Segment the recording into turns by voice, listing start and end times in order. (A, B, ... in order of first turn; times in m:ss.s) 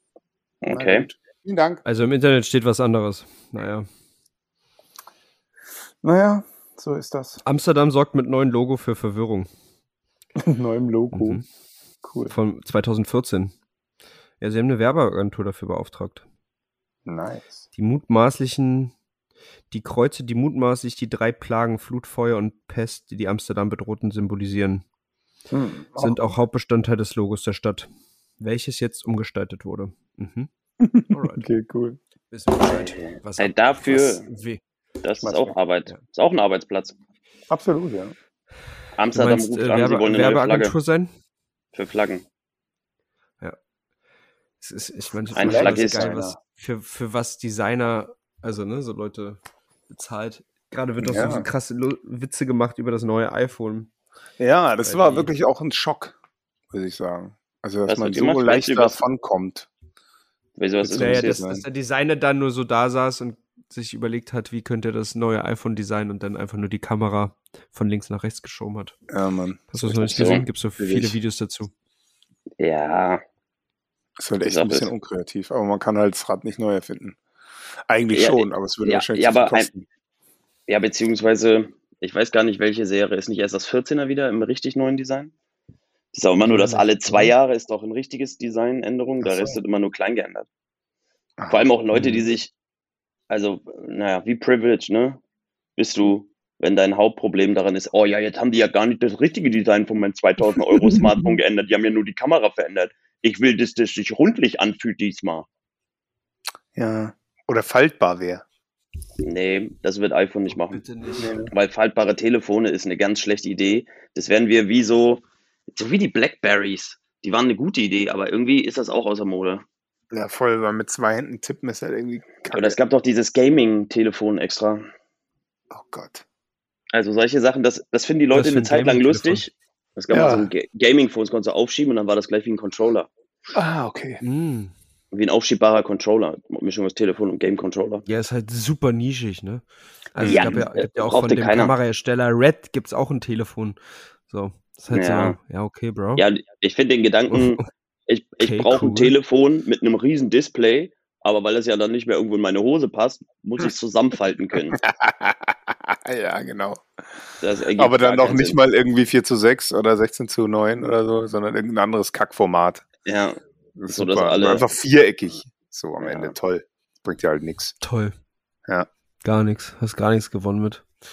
0:00.6-0:01.1 A
0:00.7-0:01.8 B
0:01.8-0:03.9 C
0:06.0-0:07.4 B
0:07.4-0:09.5 C
0:10.4-0:11.4 B
0:11.1-0:11.4 C
0:12.0-0:12.3 B
0:12.3-0:13.5 C
0:14.4-0:16.2 C
0:17.0-0:17.6 B
0:17.8-0:18.9 C
0:19.7-0:24.8 C
0:25.5-0:26.2 B
0:26.0-0:27.9 C
0:28.4-0:30.5 C
0:30.8-0:32.0 B
0:31.1-0:31.5 C
0:32.3-0:34.6 C
0:32.6-0:34.3 A
0:35.0-0:37.0 A
0:35.2-0:35.6 B
0:37.5-0:38.1 B
0:39.0-0:40.7 A
0:39.2-0:41.1 C
0:41.7-0:42.2 A
0:44.6-0:53.9 C
0:45.4-0:46.1 A
0:45.4-0:46.4 B
0:51.0-0:51.5 B
0:54.4-0:56.2 B
0:54.8-0:55.3 C
0:56.7-0:59.7 B
0:57.9-0:59.0 A
1:00.6-1:01.4 A
1:00.8-1:01.6 B
1:00.9-1:09.0 C
1:09.1-1:11.2 B
1:09.7-1:11.7 C
1:10.1-1:10.4 A
1:12.6-1:13.2 A
1:14.2-1:17.2 B
1:14.4-1:14.9 A
1:17.9-1:19.9 B
1:18.1-1:19.7 A
1:20.7-1:25.3 A
1:26.1-1:30.5 A
1:26.5-1:27.2 C
1:29.2-1:29.6 B
1:31.4-1:31.7 B
1:31.5-1:32.5 A
1:32.0-1:32.2 C
1:33.3-1:35.2 A
1:35.8-1:45.5 A
1:40.8-1:41.2 B
1:46.8-1:48.4 B
1:49.2-1:50.8 A
1:50.5-1:51.4 C
1:51.2-1:51.5 B
1:51.5-1:59.6 A
2:00.1-2:02.8 B
2:02.5-2:04.9 A
2:05.7-2:06.2 B
2:06.9-2:13.1 A
2:08.3-2:09.5 C
2:10.1-2:10.5 B
2:13.5-2:14.2 B
2:14.2-2:14.7 C
2:15.1-2:18.1 A
2:18.1-2:26.2 C
2:20.2-2:20.6 B
2:20.2-2:21.7 A
2:24.9-2:25.4 A
2:26.2-2:34.8 A
2:27.3-2:27.7 C
2:28.4-2:29.1 C
2:34.7-2:42.8 B
2:37.4-2:38.6 A
2:43.1-2:43.4 A
2:43.8-2:47.8 B
2:43.9-2:44.6 A
2:46.0-2:46.3 A
2:47.8-2:48.2 C
2:49.2-2:50.9 C